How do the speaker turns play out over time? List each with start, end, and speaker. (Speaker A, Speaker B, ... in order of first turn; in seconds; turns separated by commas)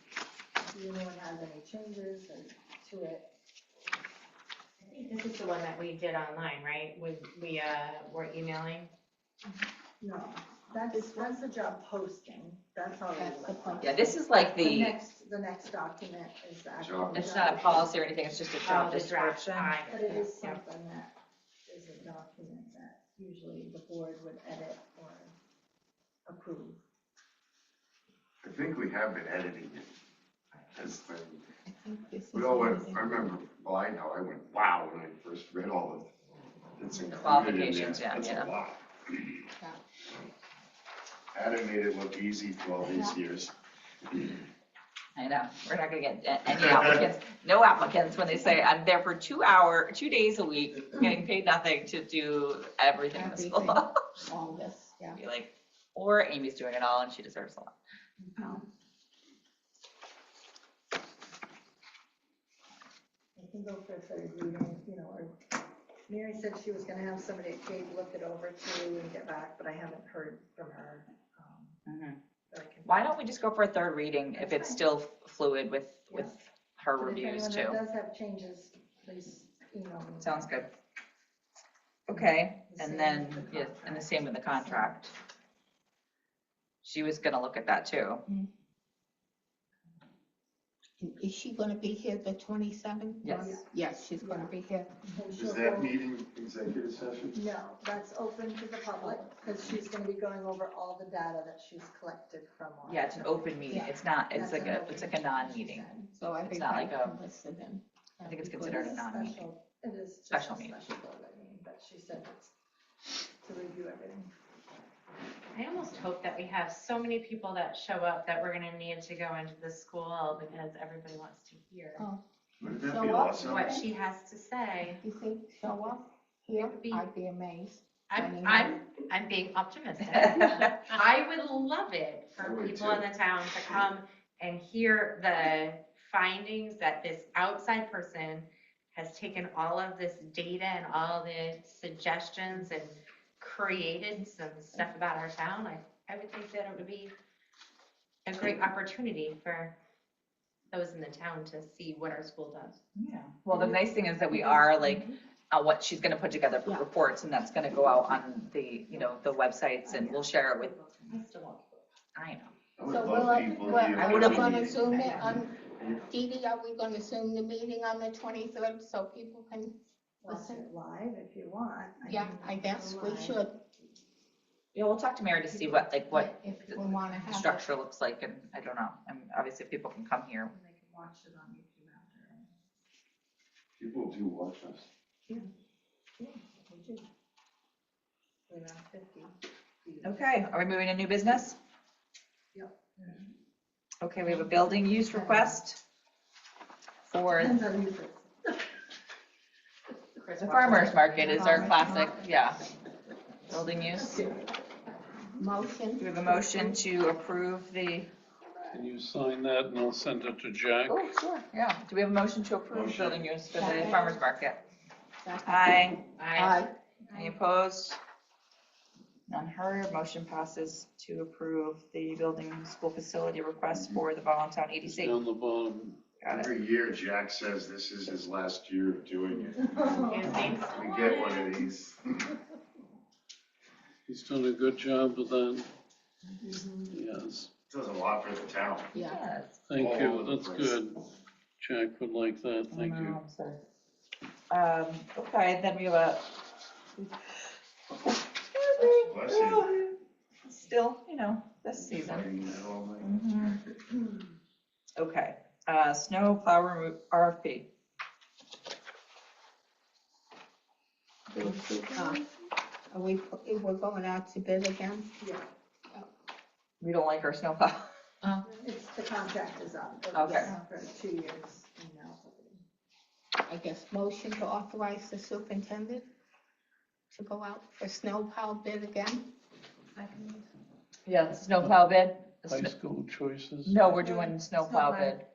Speaker A: 0.7-3.3, Speaker B: 4.8-8.9, Speaker A: 10.0-18.0, Speaker C: 10.9-11.4, Speaker C: 13.1-14.1, Speaker D: 13.8-15.0, Speaker E: 16.8-17.3, Speaker D: 17.1-19.8, Speaker B: 18.6-20.6, Speaker A: 19.9-21.1, Speaker A: 21.7-25.4, Speaker A: 26.3-26.8, Speaker E: 28.4-29.9, Speaker E: 30.7-31.4, Speaker C: 31.7-33.3, Speaker E: 32.3-36.1, Speaker E: 36.8-39.5, Speaker D: 37.1-38.5, Speaker E: 41.3-43.5, Speaker E: 44.1-44.4, Speaker D: 45.2-54.0, Speaker C: 53.1-55.2, Speaker D: 55.2-57.7, Speaker A: 58.2-58.6, Speaker C: 58.4-58.6, Speaker A: 63.4-65.4, Speaker A: 66.1-71.8, Speaker D: 71.9-72.2, Speaker A: 72.5-73.2, Speaker D: 72.8-77.8, Speaker A: 74.3-74.8, Speaker A: 76.1-76.3, Speaker A: 77.0-80.7, Speaker D: 80.2-80.7, Speaker D: 82.1-85.1, Speaker A: 82.1-85.1, Speaker D: 86.8-88.2, Speaker C: 91.0-94.9, Speaker D: 93.2-93.5, Speaker A: 93.4-94.5, Speaker A: 95.0-96.0, Speaker E: 95.3-97.4, Speaker A: 97.3-106.1, Speaker D: 102.8-105.9, Speaker C: 106.1-109.0, Speaker D: 106.5-107.2, Speaker D: 108.2-109.5, Speaker A: 108.6-112.5, Speaker D: 110.3-110.8, Speaker A: 113.4-114.3, Speaker B: 115.5-122.1, Speaker C: 122.0-123.9, Speaker E: 122.6-123.8, Speaker B: 123.4-125.0, Speaker C: 124.8-128.8, Speaker B: 126.6-127.1, Speaker B: 128.1-147.1, Speaker E: 132.4-133.1, Speaker B: 148.3-149.8, Speaker B: 150.7-152.8, Speaker D: 152.9-160.7, Speaker C: 154.4-155.0, Speaker A: 159.9-160.2, Speaker A: 160.8-161.8, Speaker D: 162.2-162.5, Speaker E: 162.8-166.0, Speaker C: 162.9-169.8, Speaker A: 163.5-165.3, Speaker A: 170.2-173.4, Speaker C: 170.3-170.7, Speaker C: 172.1-173.6, Speaker D: 174.7-180.5, Speaker C: 176.1-177.7, Speaker A: 176.4-177.4, Speaker A: 180.5-182.6, Speaker E: 183.8-184.9, Speaker A: 186.2-187.1, Speaker A: 188.5-190.4, Speaker D: 190.0-191.6, Speaker A: 192.5-193.3, Speaker D: 194.0-195.8, Speaker A: 195.0-195.6, Speaker D: 197.1-197.6, Speaker A: 197.3-198.7, Speaker B: 200.2-202.1, Speaker D: 200.4-202.6, Speaker C: 201.3-202.1, Speaker A: 201.4-202.0, Speaker D: 203.5-204.3, Speaker A: 203.7-204.5, Speaker C: 205.4-206.8, Speaker D: 206.0-208.1, Speaker F: 208.7-211.0, Speaker D: 210.9-214.6, Speaker E: 212.7-213.2, Speaker C: 213.6-214.2, Speaker C: 215.2-216.7, Speaker D: 215.4-216.0, Speaker B: 216.2-216.6, Speaker D: 217.1-218.0, Speaker D: 219.3-225.2, Speaker F: 224.9-226.1, Speaker D: 226.2-226.5, Speaker E: 226.3-232.3, Speaker A: 229.5-230.6, Speaker B: 230.0-231.6, Speaker F: 234.1-235.7, Speaker A: 236.4-237.0, Speaker F: 236.9-237.5, Speaker E: 237.7-238.9, Speaker C: 238.9-239.2, Speaker D: 238.9-239.7, Speaker F: 239.7-241.0, Speaker E: 239.8-240.8, Speaker F: 241.6-243.2, Speaker D: 242.7-243.6, Speaker D: 244.5-246.3, Speaker D: 248.0-252.3, Speaker E: 249.1-249.7, Speaker E: 251.7-253.5, Speaker D: 253.0-253.6, Speaker D: 255.0-257.7, Speaker C: 261.3-262.3, Speaker C: 262.9-265.2, Speaker A: 265.2-265.5, Speaker D: 266.8-267.9, Speaker A: 268.5-272.6, Speaker D: 270.1-270.5, Speaker C: 273.5-276.1, Speaker C: 277.1-279.3, Speaker D: 281.1-282.8, Speaker F: 282.4-284.1, Speaker D: 283.6-285.2